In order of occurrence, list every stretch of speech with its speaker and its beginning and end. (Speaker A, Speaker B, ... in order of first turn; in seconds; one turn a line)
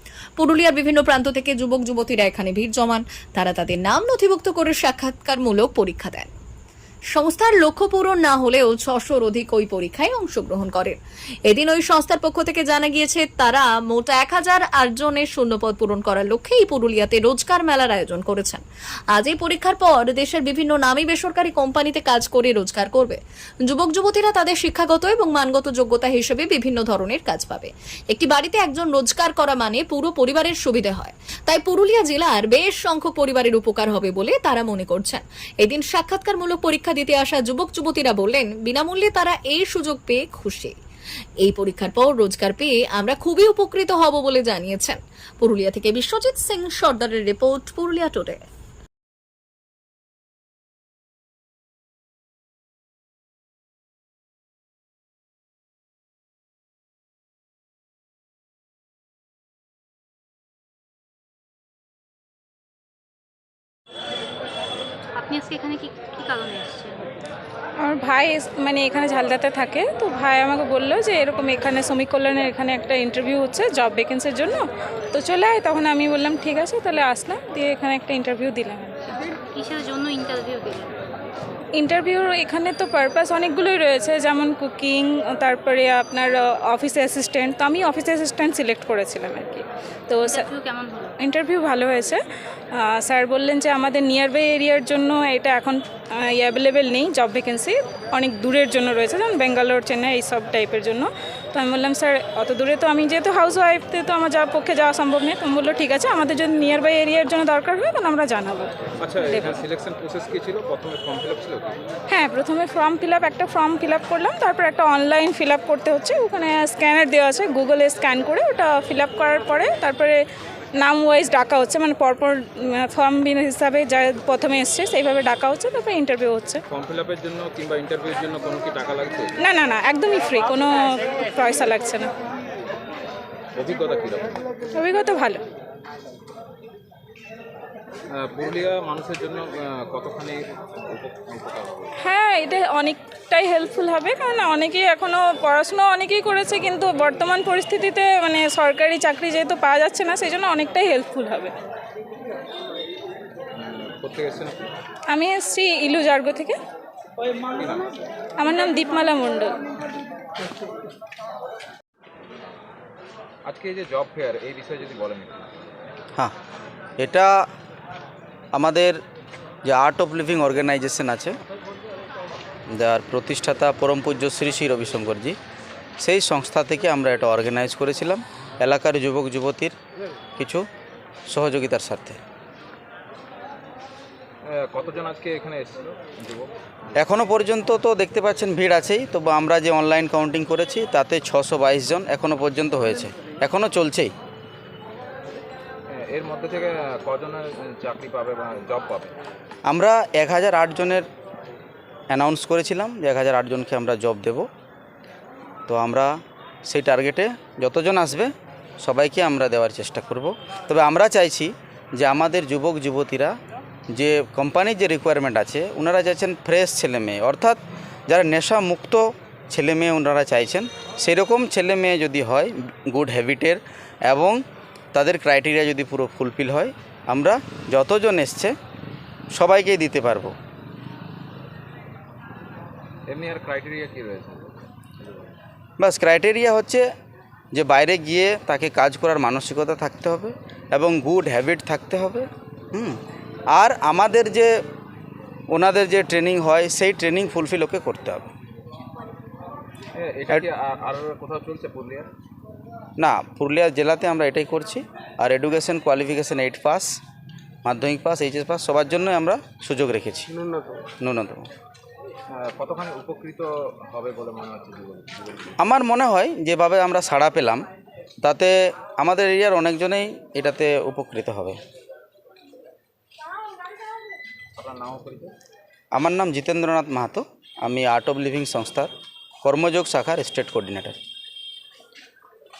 Speaker A: 0.4-6.3
Speaker A: 7.1-40.7
Speaker A: 41.4-48.5
Speaker B: 65.1-67.2
Speaker C: 67.8-79.0
Speaker B: 79.0-81.2
Speaker C: 81.7-90.5
Speaker B: 90.2-91.2
Speaker C: 91.2-109.6
Speaker D: 109.0-111.8
Speaker C: 112.1-120.2
Speaker C: 120.8-126.6
Speaker D: 126.7-129.4
Speaker C: 129.4-132.1
Speaker D: 133.5-134.4
Speaker C: 134.7-135.4
Speaker D: 138.1-142.0
Speaker C: 142.0-151.5
Speaker D: 153.5-154.7
Speaker C: 155.1-156.6
Speaker D: 157.5-157.9
Speaker C: 158.4-159.6
Speaker D: 163.4-165.5
Speaker E: 167.0-167.4
Speaker E: 168.5-169.0
Speaker E: 169.6-171.4
Speaker E: 172.7-175.4
Speaker E: 176.0-179.8
Speaker E: 180.4-180.7
Speaker E: 181.3-182.2
Speaker D: 184.4-186.5
Speaker E: 186.9-194.1
Speaker D: 195.9-199.2
Speaker E: 199.7-201.1
Speaker E: 202.1-204.5
Speaker E: 205.7-213.4
Speaker E: 213.9-228.6
Speaker E: 229.3-230.3
Speaker D: 233.1-235.3
Speaker E: 235.8-236.9
Speaker E: 237.5-243.0
Speaker E: 243.5-244.6
Speaker E: 245.5-248.3
Speaker D: 249.9-252.1
Speaker E: 253.0-257.0
Speaker E: 257.6-260.3
Speaker E: 261.0-261.5
Speaker D: 262.3-265.6
Speaker E: 265.6-267.7
Speaker E: 268.2-271.6
Speaker D: 274.6-275.3
Speaker E: 275.9-281.0